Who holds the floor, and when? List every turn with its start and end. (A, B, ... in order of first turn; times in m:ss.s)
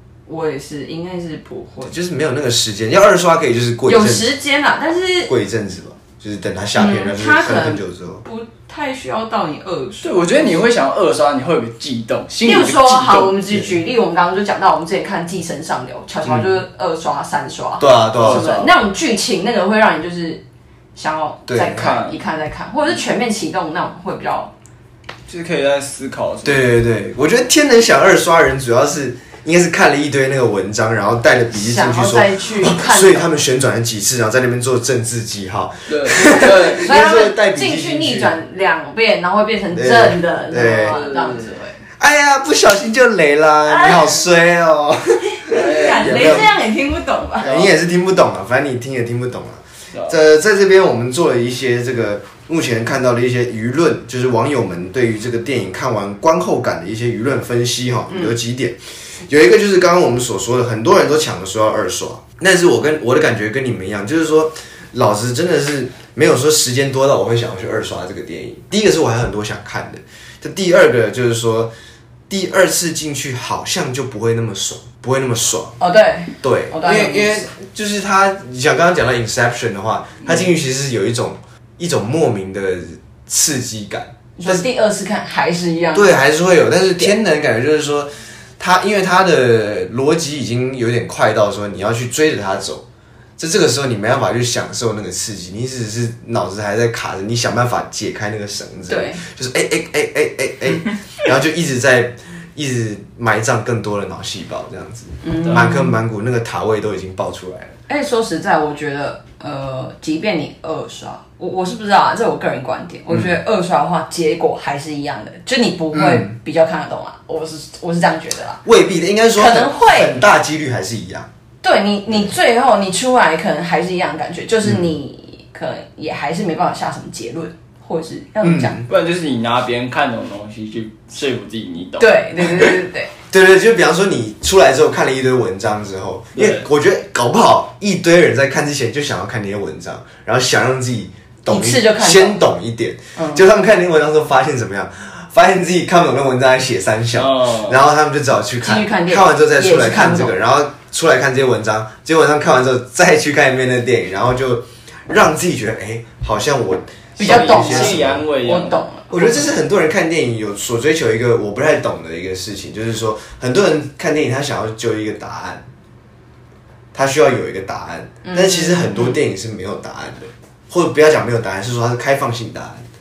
0:00.3-0:01.9 A
0:01.8-0:04.3 B
0:03.9-0:05.3 A
0:05.3-0:08.2 B
0:06.8-0:10.7 A
0:10.0-0:13.4 C
0:12.4-0:20.4 A
0:16.2-0:16.6 B
0:17.8-0:18.5 B
0:18.2-0:18.7 C
0:21.0-0:24.5 A
0:21.5-0:21.9 B
0:21.7-0:22.2 C
0:25.3-0:26.7 C
0:26.4-0:38.4 B
0:31.5-0:33.3 A
0:35.9-0:36.9 C
0:36.3-0:41.8 A
0:39.7-0:41.0 B
0:40.9-0:41.5 C
0:42.0-0:46.5 B
0:43.7-0:44.2 A
0:45.5-0:47.5 A
0:45.5-0:46.5 C
0:47.4-1:11.7 B
0:47.4-0:47.7 C
1:12.3-1:15.8 B
1:15.8-1:17.5 A
1:16.4-1:24.6 B
1:24.4-1:26.1 A
1:25.9-1:32.8 B
1:33.4-1:47.7 B
1:38.9-1:39.2 A
1:45.2-1:45.9 A
1:47.9-1:58.6 A
1:55.9-1:56.3 B
1:58.6-2:01.3 B
1:59.4-2:00.2 A
2:01.6-2:08.8 A
2:08.4-2:08.9 B
2:08.9-2:12.2 C
2:12.0-2:13.1 A
2:13.3-2:38.2 B
2:16.3-2:16.6 C
2:21.5-2:22.4 A
2:23.2-2:23.4 A
2:27.1-2:27.8 C
2:28.6-2:30.3 A
2:37.2-2:39.5 A
2:37.2-2:38.8 C
2:39.1-2:45.6 B
2:46.9-2:52.8 B
2:48.2-2:49.2 A